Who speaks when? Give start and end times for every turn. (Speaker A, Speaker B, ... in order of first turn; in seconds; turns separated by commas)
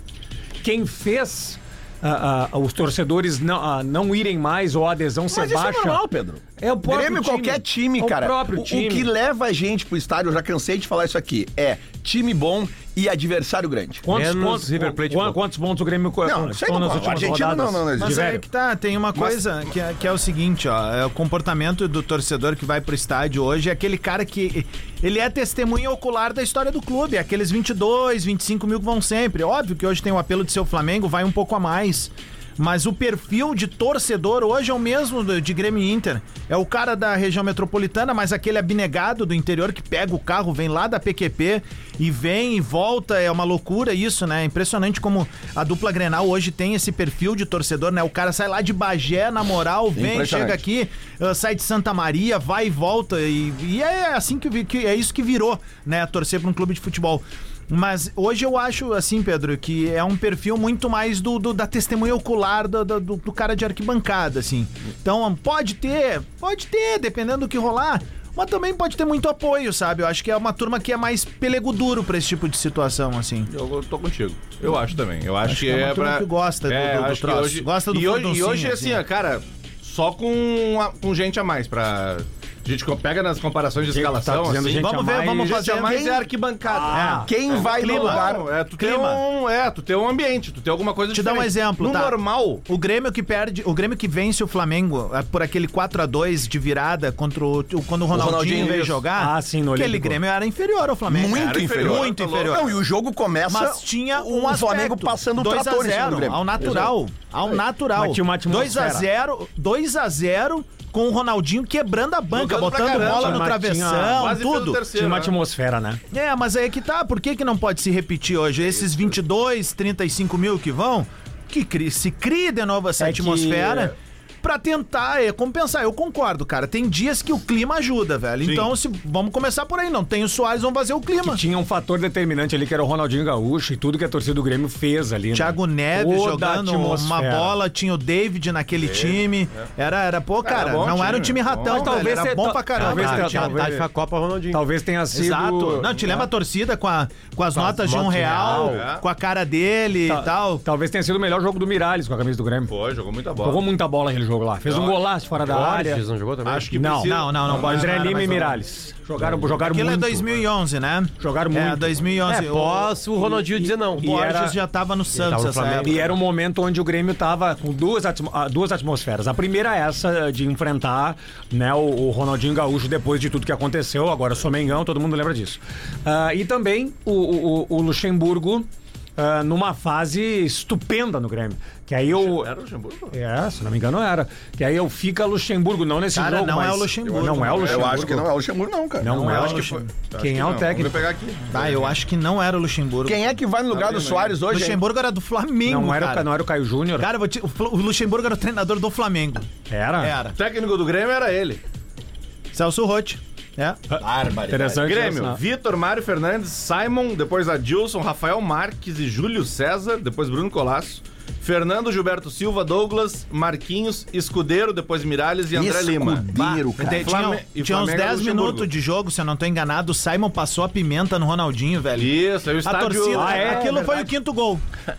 Speaker A: 0.6-6.0, Speaker B: 5.3-14.1, Speaker A: 6.6-9.1, Speaker A: 14.1-18.4, Speaker C: 14.1-15.4, Speaker B: 16.2-18.2, Speaker D: 18.0-73.5, Speaker B: 49.9-50.6, Speaker E: 73.5-84.9, Speaker D: 75.4-79.0, Speaker A: 83.9-85.7, Speaker D: 84.8-86.0, Speaker E: 85.4-92.6, Speaker B: 85.7-86.2, Speaker A: 86.7-87.3, Speaker D: 86.9-89.2, Speaker B: 87.2-88.5, Speaker D: 91.1-102.7, Speaker B: 98.1-99.0, Speaker A: 99.2-100.2, Speaker B: 101.1-106.9, Speaker E: 101.3-102.7, Speaker D: 103.5-114.8, Speaker A: 107.9-109.0, Speaker E: 112.3-113.5, Speaker A: 112.8-114.3, Speaker E: 114.0-115.3, Speaker A: 114.9-116.0, Speaker D: 116.1-131.4, Speaker E: 118.6-119.1, Speaker A: 123.0-123.9, Speaker E: 128.4-128.7, Speaker A: 131.2-137.6, Speaker D: 135.3-143.7, Speaker E: 138.8-139.7, Speaker E: 140.4-142.2, Speaker A: 141.6-143.9, Speaker C: 142.8-144.6, Speaker A: 144.5-146.3, Speaker D: 145.1-150.6, Speaker E: 145.8-146.1, Speaker C: 147.5-148.9, Speaker E: 148.5-149.0, Speaker A: 150.1-152.7, Speaker E: 152.7-153.6, Speaker A: 153.4-156.0, Speaker E: 154.6-155.0, Speaker C: 155.4-156.7, Speaker E: 156.4-157.9, Speaker A: 156.7-160.4, Speaker D: 157.0-158.6, Speaker D: 159.4-163.4, Speaker A: 161.2-162.2, Speaker C: 162.2-164.2, Speaker A: 164.0-164.6, Speaker D: 164.0-166.0, Speaker C: 165.1-166.1, Speaker A: 165.8-182.5, Speaker E: 182.1-183.2, Speaker A: 183.1-188.2, Speaker D: 186.1-188.2, Speaker E: 187.0-188.2, Speaker B: 187.6-189.2, Speaker A: 189.0-191.0, Speaker D: 189.1-189.9, Speaker E: 189.2-191.9, Speaker D: 191.5-193.3, Speaker B: 193.0-194.8, Speaker E: 193.7-194.4, Speaker D: 194.5-196.3, Speaker A: 195.7-197.1, Speaker D: 197.0-199.5, Speaker A: 199.7-200.1, Speaker D: 200.0-200.4, Speaker E: 200.3-201.6, Speaker D: 202.5-203.8, Speaker A: 203.9-205.4, Speaker B: 204.0-204.8, Speaker E: 204.8-216.3, Speaker B: 215.5-217.2, Speaker D: 216.3-224.6, Speaker E: 217.0-218.7, Speaker E: 221.9-224.1, Speaker A: 223.1-223.9